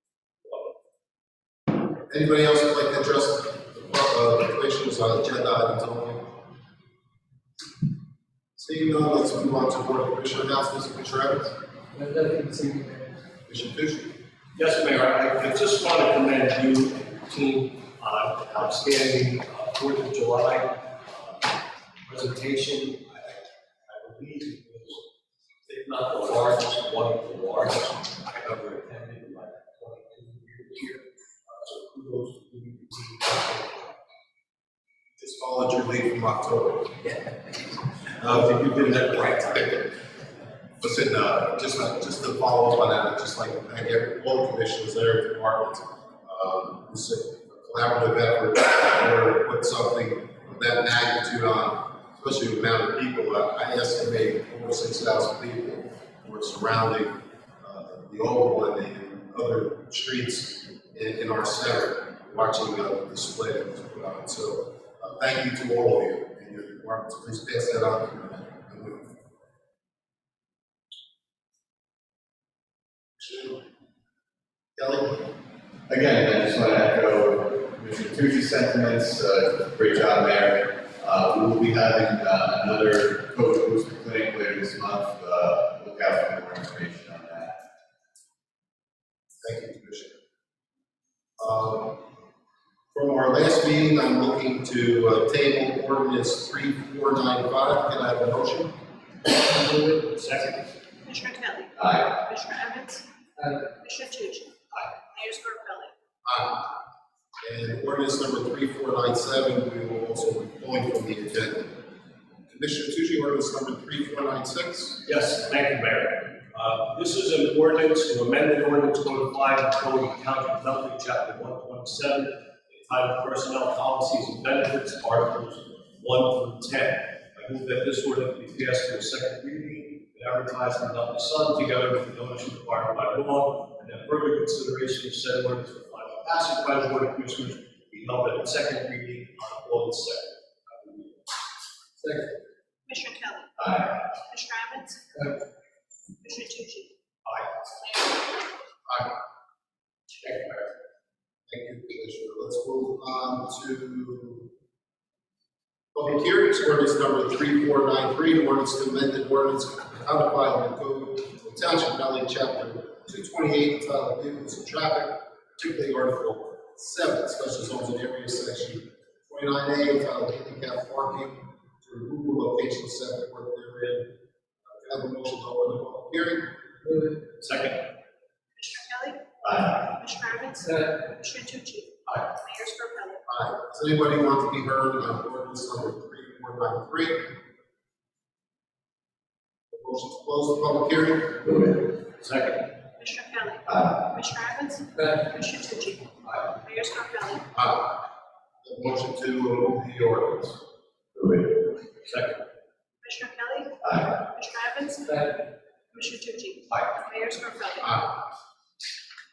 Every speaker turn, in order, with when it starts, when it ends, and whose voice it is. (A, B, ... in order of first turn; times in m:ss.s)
0:02.1-0:06.3 A
0:08.6-0:11.5 A
0:11.9-0:13.1 B
0:13.5-0:14.2 A
0:14.6-0:21.5 C
0:22.0-0:25.0 C
0:25.6-0:33.9 C
0:35.2-0:37.0 A
0:38.2-0:39.9 A
0:38.2-0:39.6 C
0:40.8-1:09.1 A
1:14.8-1:15.3 D
1:15.9-1:27.6 D
1:29.4-1:30.2 A
1:31.4-1:32.0 A
1:32.9-1:38.7 A
1:39.6-1:40.1 B
1:40.1-1:40.6 C
1:41.0-1:43.0 E
1:41.8-1:42.1 D
1:43.8-1:44.6 E
1:45.1-1:45.9 E
1:46.2-1:46.7 A
1:47.4-1:51.7 A
1:52.5-1:55.0 A
1:55.0-2:21.2 C
2:22.0-2:22.3 B
2:22.9-2:25.3 E
2:23.6-2:23.9 D
2:26.2-2:26.9 E
2:27.2-2:28.0 C
2:30.2-2:30.7 C
2:31.5-2:34.5 A
2:35.9-2:54.1 A
2:54.6-2:56.5 A
2:56.8-2:57.2 B
2:57.4-2:57.8 C
2:58.6-3:03.2 E
2:59.4-2:59.8 D
3:00.6-3:01.0 B
3:03.3-3:07.3 A
3:09.7-3:11.8 A
3:12.2-3:12.7 C
3:13.0-3:17.5 E
3:17.5-3:18.0 A
3:18.6-3:20.6 A
3:21.2-3:21.6 D
3:22.0-3:22.4 C
3:23.0-3:28.0 E
3:23.8-3:24.1 D